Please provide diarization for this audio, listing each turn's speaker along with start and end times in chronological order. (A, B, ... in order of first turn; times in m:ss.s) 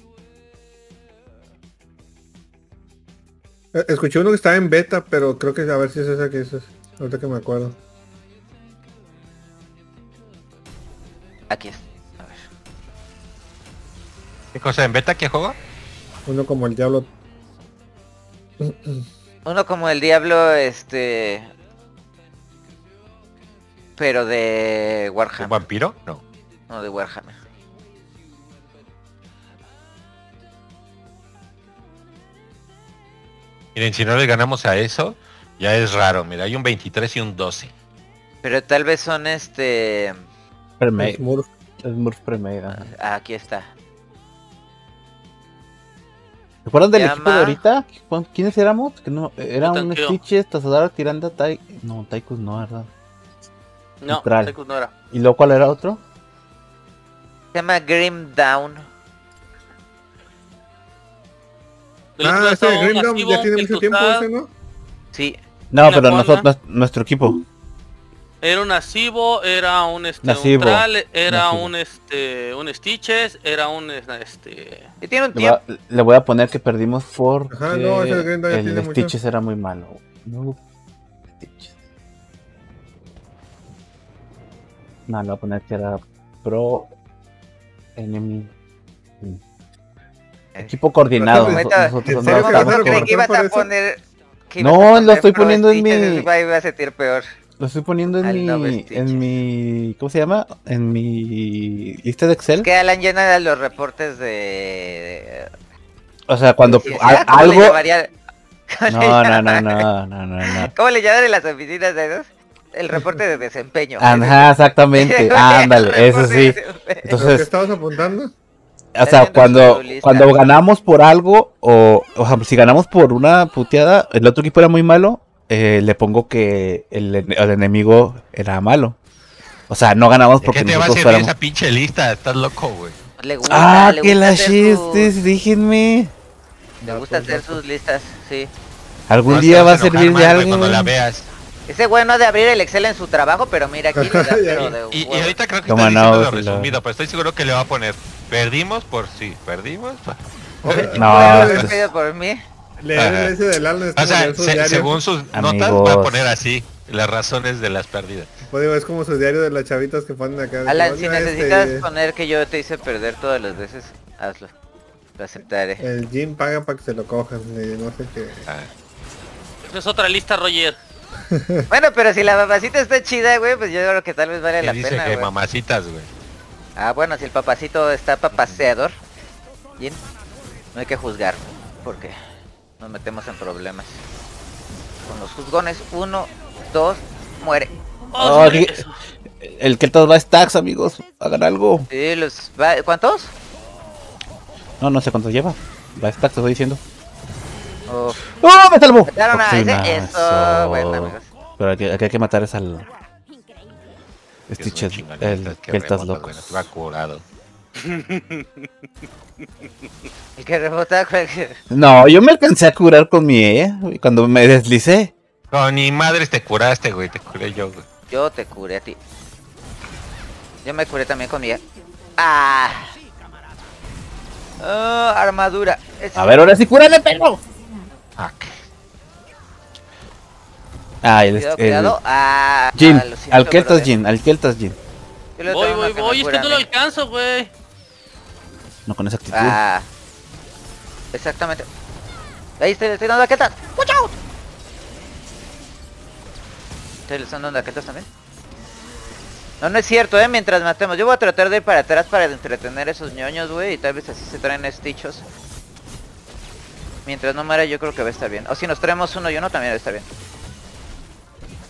0:03.7-0:07.8 A
0:11.5-0:12.4 B
0:14.5-0:15.6 C
0:16.3-0:17.1 A
0:18.6-0:19.0 A
0:19.4-0:21.5 B
0:24.0-0:25.6 B
0:25.4-0:26.2 C
0:26.7-0:27.4 B
0:33.8-0:37.7 C
0:38.4-0:40.2 B
0:40.8-0:41.2 D
0:41.0-0:41.5 A
0:41.8-0:42.9 D
0:42.7-0:43.7 B
0:46.6-0:52.9 D
0:46.9-0:47.6 B
0:49.6-0:50.2 E
0:54.0-0:54.9 E
0:54.1-0:54.6 D
0:55.1-0:56.0 D
0:57.5-0:58.9 B
1:02.2-1:04.3 E
1:02.2-1:04.5 A
1:05.1-1:05.4 B
1:05.7-1:07.4 D
1:05.8-1:06.5 E
1:08.4-1:14.9 E
1:10.2-1:11.7 D
1:15.0-1:15.6 B
1:15.3-1:20.6 D
1:17.5-1:19.2 A
1:21.4-1:21.8 D
1:25.1-1:26.9 D
1:28.0-1:28.5 D
1:30.7-1:33.1 D
1:31.2-1:33.7 A
1:31.3-1:37.2 B
1:34.6-1:36.3 D
1:37.6-1:42.7 D
1:38.2-1:39.3 B
1:42.6-1:45.5 B
1:46.3-1:47.8 D
1:46.6-1:48.1 B
1:48.7-1:49.8 B
1:48.9-1:50.7 D
1:50.5-1:57.2 B
1:54.0-1:56.6 D
1:57.1-1:58.3 A
1:57.2-1:57.4 D
1:59.0-2:09.0 D
1:59.0-2:00.4 B
2:09.7-2:11.3 D
2:10.4-2:13.0 C
2:13.2-2:15.1 B
2:13.4-2:16.1 D
2:16.8-2:17.6 A
2:16.8-2:18.5 B
2:19.1-2:20.9 D
2:19.3-2:21.3 C
2:21.7-2:25.4 B
2:24.0-2:24.8 A
2:24.6-2:31.8 C
2:25.7-2:26.8 D
2:30.6-2:31.7 A
2:30.7-2:32.4 B
2:30.9-2:31.7 D
2:32.8-2:35.0 A
2:33.0-2:33.4 C
2:34.0-2:38.3 C
2:35.3-2:36.3 D
2:38.4-2:41.9 A
2:40.7-2:44.5 B
2:45.2-2:45.8 B
2:45.8-2:48.5 A
2:49.6-2:50.8 E
2:51.3-2:51.7 A
2:51.7-2:55.3 B
2:54.6-2:56.1 C
2:56.8-2:59.0 B
3:00.7-3:02.2 B
3:02.8-3:04.0 B
3:05.1-3:07.7 B
3:08.1-3:09.0 E
3:08.2-3:08.8 D
3:08.2-3:08.6 B
3:09.4-3:11.9 D
3:11.9-3:13.3 B
3:14.8-3:16.8 D
3:17.9-3:18.2 B
3:18.3-3:22.8 D
3:19.1-3:21.3 B
3:24.5-3:26.6 D
3:24.6-3:27.2 C
3:27.8-3:28.4 E
3:30.4-3:31.6 B
3:31.7-3:35.1 D
3:35.5-3:37.8 C
3:38.1-3:39.0 B
3:40.6-3:41.6 B
3:42.2-3:42.9 B
3:44.6-3:46.5 B
3:46.2-3:47.4 D
3:48.2-3:48.5 C
3:51.0-3:52.0 D
3:51.3-3:53.9 B
3:52.8-3:54.8 D
3:55.4-3:56.7 B
3:55.4-3:57.5 E
3:58.9-3:59.6 D
3:59.3-3:59.9 B
4:01.1-4:01.7 B
4:02.6-4:04.2 B
4:07.1-4:08.1 B
4:09.6-4:15.2 B
4:17.0-4:20.1 B